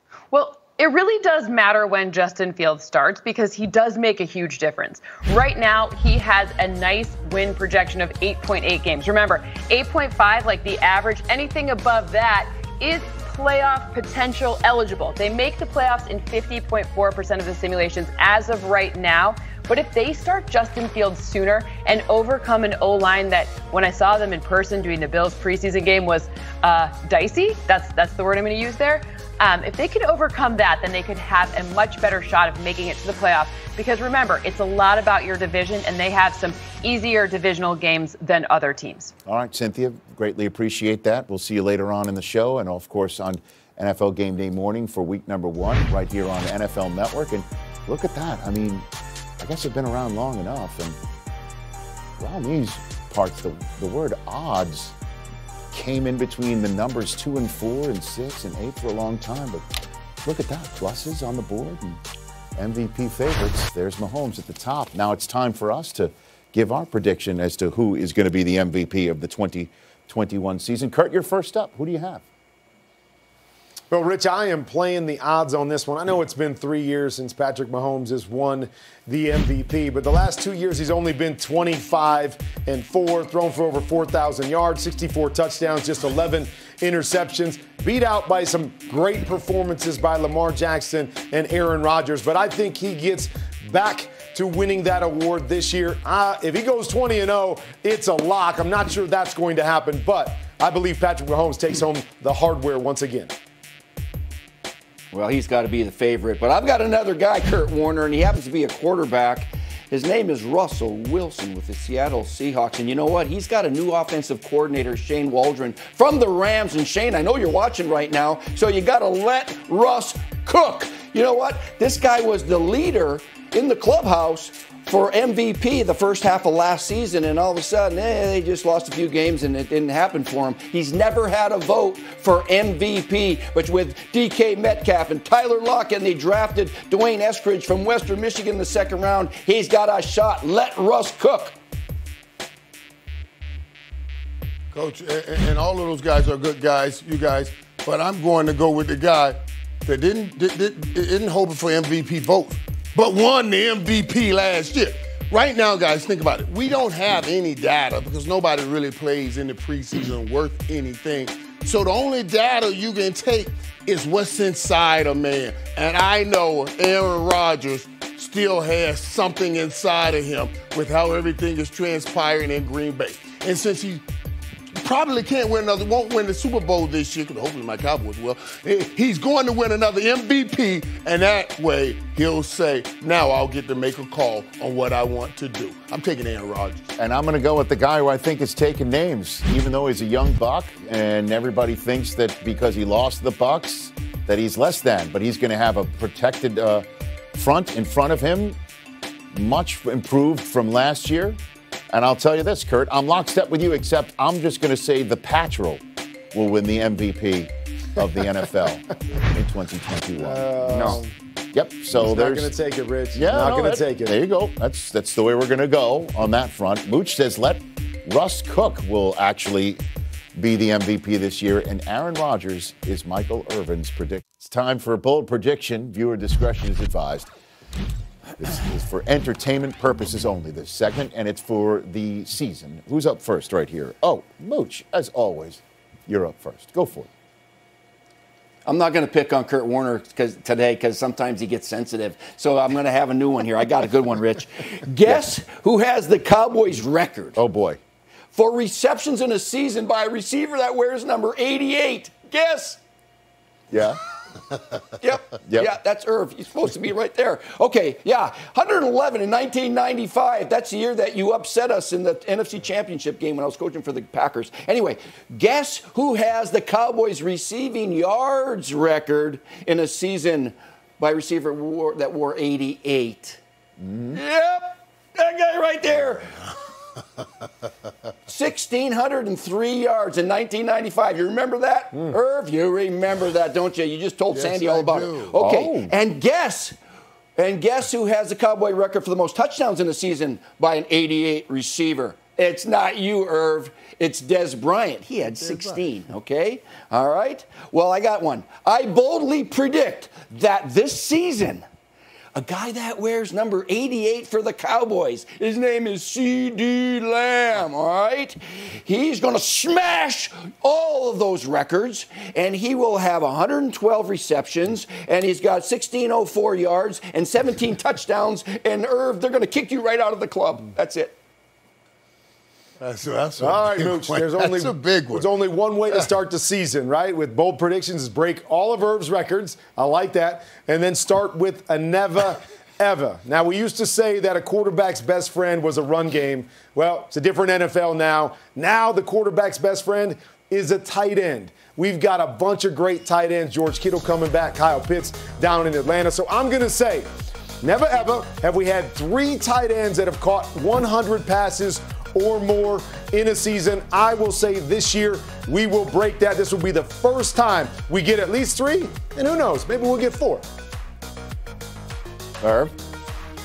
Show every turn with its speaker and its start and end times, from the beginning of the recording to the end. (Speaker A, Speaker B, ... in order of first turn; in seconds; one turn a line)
Speaker A: 0.3-39.1
Speaker B: 39.2-48.9
Speaker B: 49.4-51.0
Speaker B: 52.2-54.9
Speaker B: 55.7-59.6
Speaker B: 60.2-62.0
Speaker B: 62.5-72.2
Speaker C: 73.9-103.3
Speaker D: 105.1-141.6
Speaker E: 144.7-174.0
Speaker E: 174.7-186.9
Speaker B: 186.9-198.6
Speaker B: 199.3-201.4
Speaker B: 201.9-211.0
Speaker C: 210.2-211.1
Speaker B: 211.5-212.5
Speaker C: 211.9-214.1
Speaker B: 213.1-219.8
Speaker B: 220.3-227.3
Speaker B: 228.4-237.1
Speaker D: 238.6-247.4
Speaker B: 247.3-247.8
Speaker D: 248.3-252.8
Speaker B: 253.7-254.0
Speaker D: 255.0-273.4
Speaker B: 255.4-255.7
Speaker B: 273.8-274.2
Speaker D: 274.1-276.3
Speaker D: 278.3-286.8
Speaker E: 284.3-285.3
Speaker B: 285.4-285.9
Speaker D: 287.4-301.6
Speaker D: 302.3-321.1
Speaker E: 322.8-325.3
Speaker C: 323.4-347.1
Speaker C: 347.6-360.4
Speaker B: 362.4-362.7